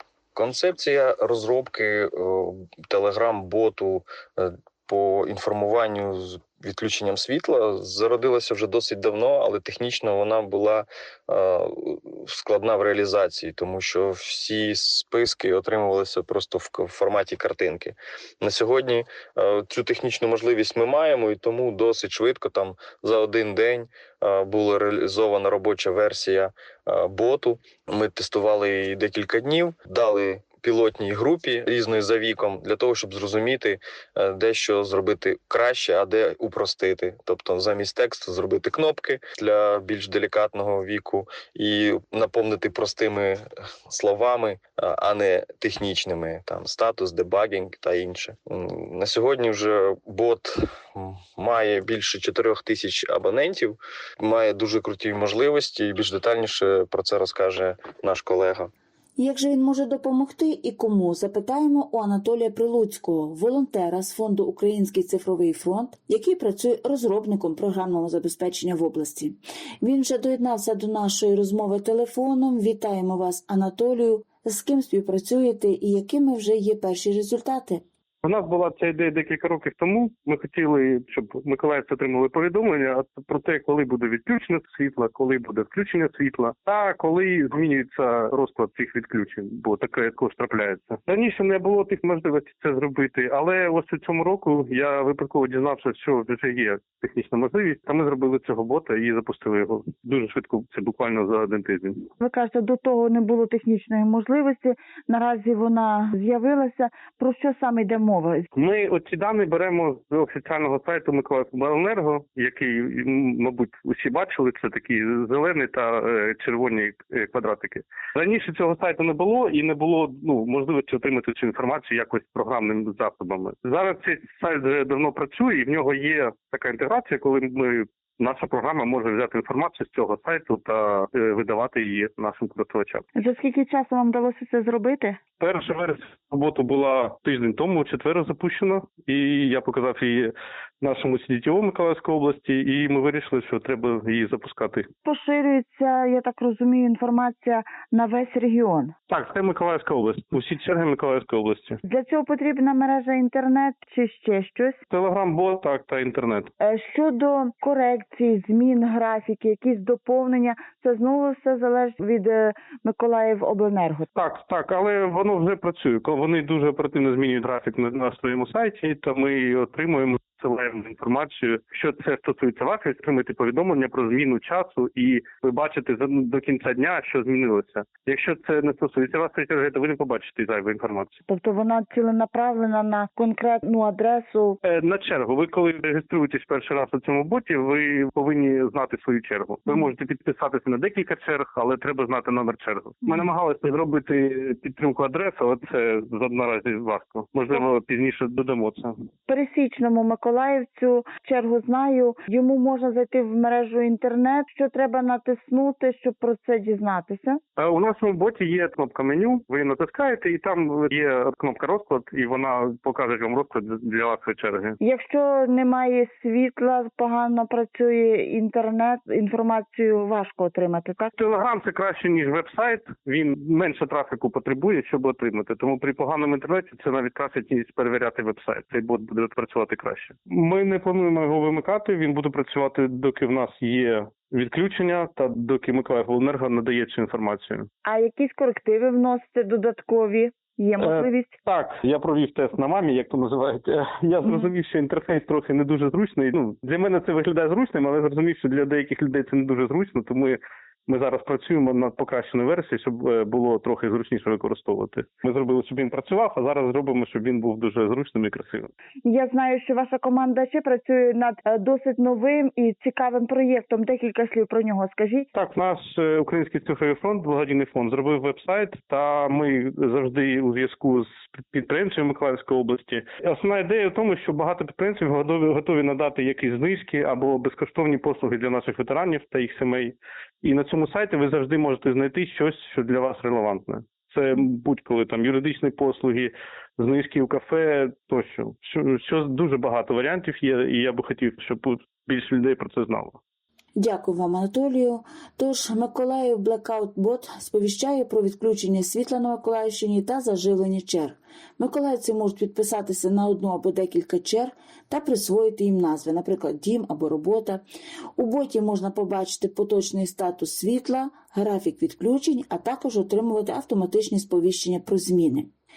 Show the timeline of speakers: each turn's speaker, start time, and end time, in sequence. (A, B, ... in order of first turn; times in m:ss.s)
0:00.4-0:58.7 A
0:59.2-1:17.8 B
1:18.2-1:42.1 C
1:42.2-1:48.5 D
1:48.5-2:13.0 C
2:13.2-2:15.2 D
2:15.4-2:24.9 C
2:25.1-2:28.9 D
2:29.1-2:31.8 C
2:31.8-2:34.8 D
2:34.9-2:36.5 C
2:36.6-2:44.1 D
2:44.2-3:01.2 C
3:01.3-3:04.6 D
3:04.6-3:19.0 C
3:19.3-3:27.4 D
3:27.6-3:34.8 C
3:34.8-3:41.1 D
3:41.2-3:57.7 C
3:57.8-4:01.3 D
4:00.8-4:18.7 C
4:19.0-4:25.3 D
4:25.3-4:53.2 C
4:53.8-5:07.6 B
5:08.2-5:15.5 B